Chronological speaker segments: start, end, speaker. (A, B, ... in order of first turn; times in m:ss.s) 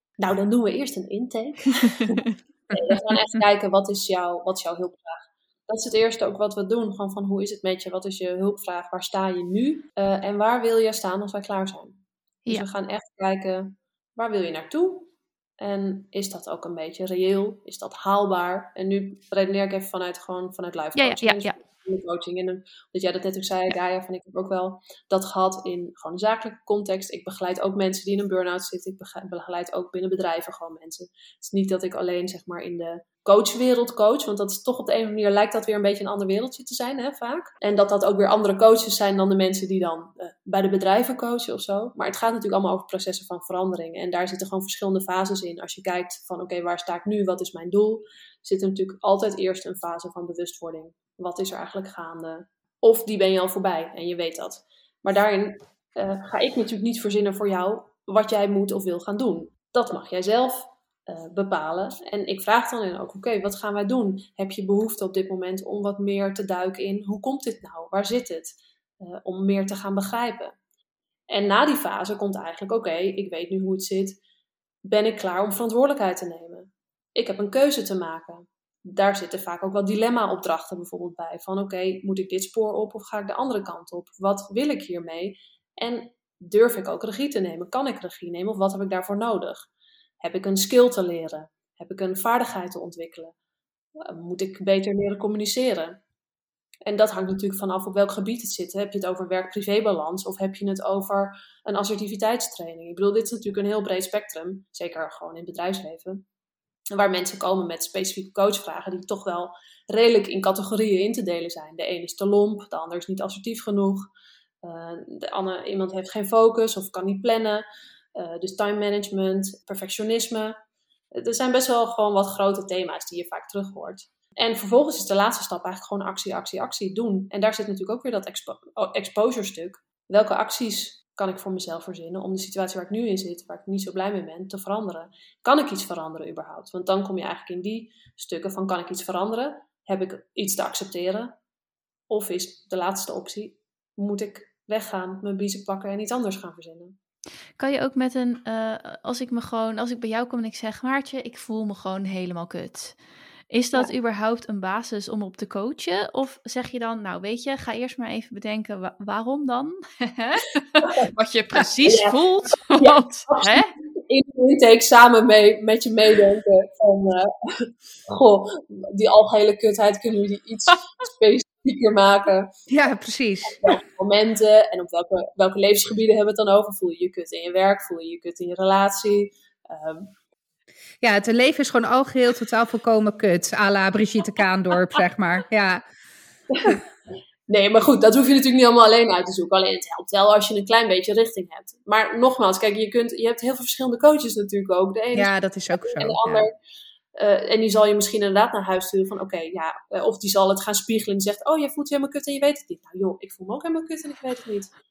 0:00.2-1:10.6 A
0:21.0-0:21.5 B
1:11.3-1:14.2 A
1:14.9-1:29.7 A
1:30.2-1:33.3 A
1:34.0-1:36.0 A
1:36.9-1:46.2 A
1:46.9-1:54.1 A
1:54.6-2:00.6 A
2:01.1-2:21.4 A
2:22.1-2:27.0 A
2:27.6-2:33.0 B
2:33.5-2:43.7 B
2:41.8-2:52.5 A
2:52.7-2:53.8 C
2:53.6-3:00.1 A
3:01.0-3:05.8 C
3:06.5-3:06.8 A
3:07.5-3:16.5 A
3:15.1-3:16.5 C
3:17.2-3:24.8 A